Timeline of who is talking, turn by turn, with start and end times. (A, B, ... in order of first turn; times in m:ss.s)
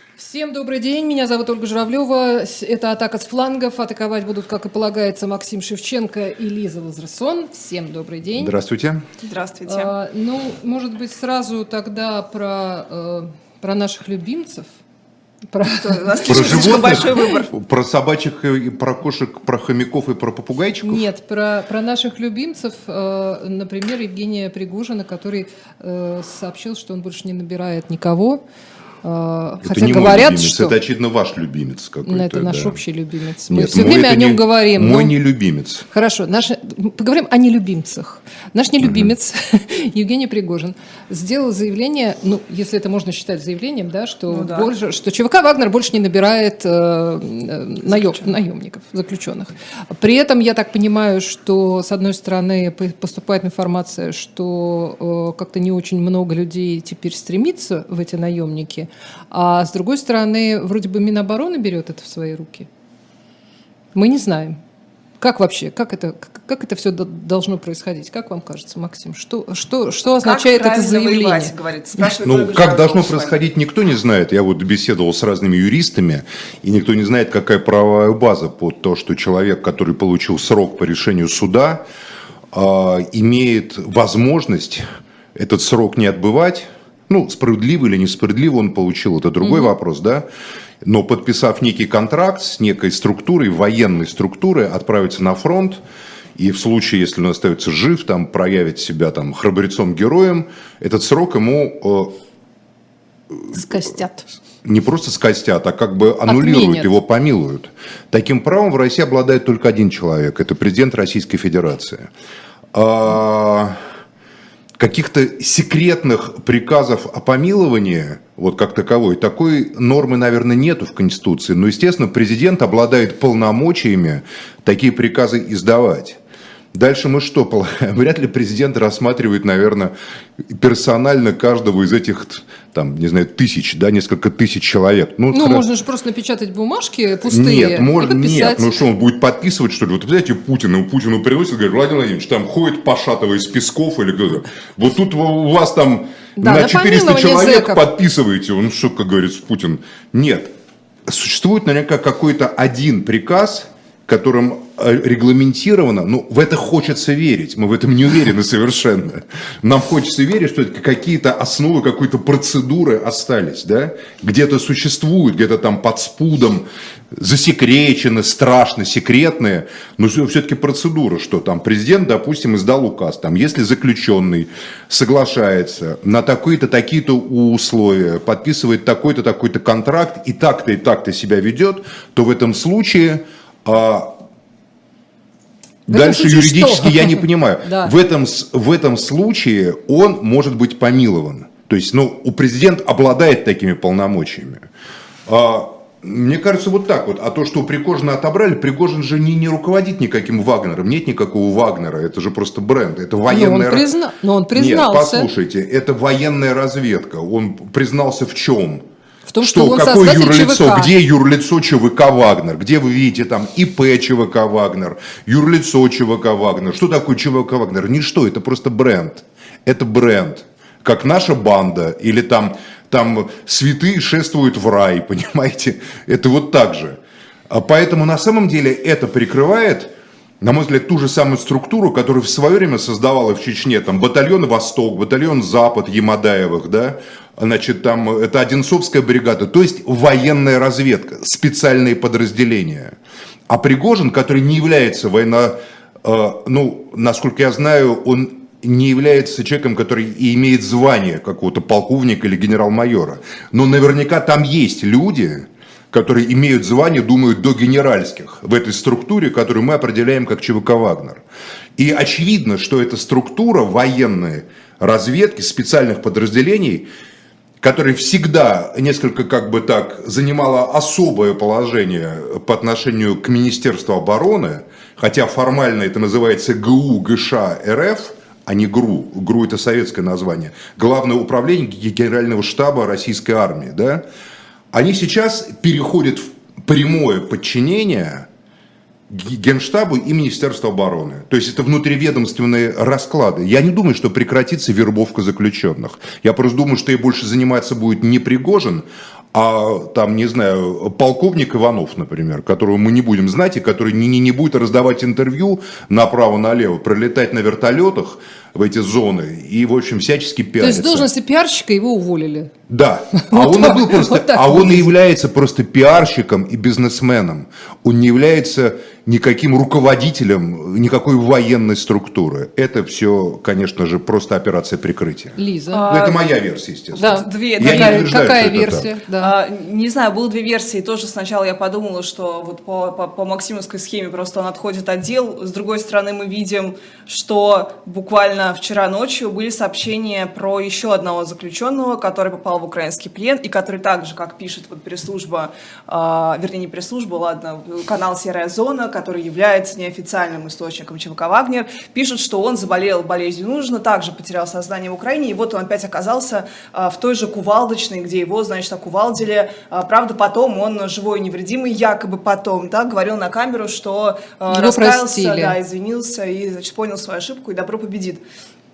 0:00.2-0:08.5 A
0:08.4-0:09.0 B
0:09.2-0:09.9 C
0:09.7-0:14.7 A
0:15.5-0:17.2 A
0:15.8-0:17.5 C
0:16.3-0:21.1 B
0:20.8-0:28.4 A
0:29.0-0:30.7 A
0:29.6-0:32.8 B
0:32.0-0:35.1 A
0:33.5-0:35.8 B
0:35.9-1:02.7 A
0:38.8-0:39.1 B
0:44.3-0:44.7 C
0:47.9-0:48.2 C
1:03.9-1:04.6 A
1:05.2-1:11.5 A
1:10.2-1:13.4 C
1:12.2-1:21.8 B
1:22.5-1:30.2 B
1:29.4-1:29.7 A
1:30.8-1:35.8 B
1:36.4-1:42.1 B
1:43.5-1:44.3 A
1:44.6-1:52.1 B
1:46.2-1:46.9 A
1:52.7-1:53.8 B
1:54.8-2:06.2 B
2:06.7-2:09.9 B
2:10.4-2:15.6 B
2:15.3-2:18.8 A
2:17.2-2:30.5 B
2:26.4-2:27.8 A
2:31.0-3:04.1 B
3:05.9-3:14.6 B
3:05.9-3:07.9 A
3:15.3-3:23.8 B
3:23.3-3:25.3 A
3:24.5-3:28.8 B
3:29.3-3:30.9 A
3:29.4-4:02.9 B
4:03.5-4:21.2 B
4:21.8-4:26.9 B
4:27.6-4:44.0 B
4:44.7-4:48.3 B
4:49.1-5:11.1 B
5:10.6-5:12.5 A
5:12.7-5:28.8 B
5:13.2-5:14.9 A
5:25.4-5:25.8 A
5:25.7-5:26.2 C
5:27.0-5:29.3 A
5:27.0-6:08.2 C
6:04.5-6:05.6 A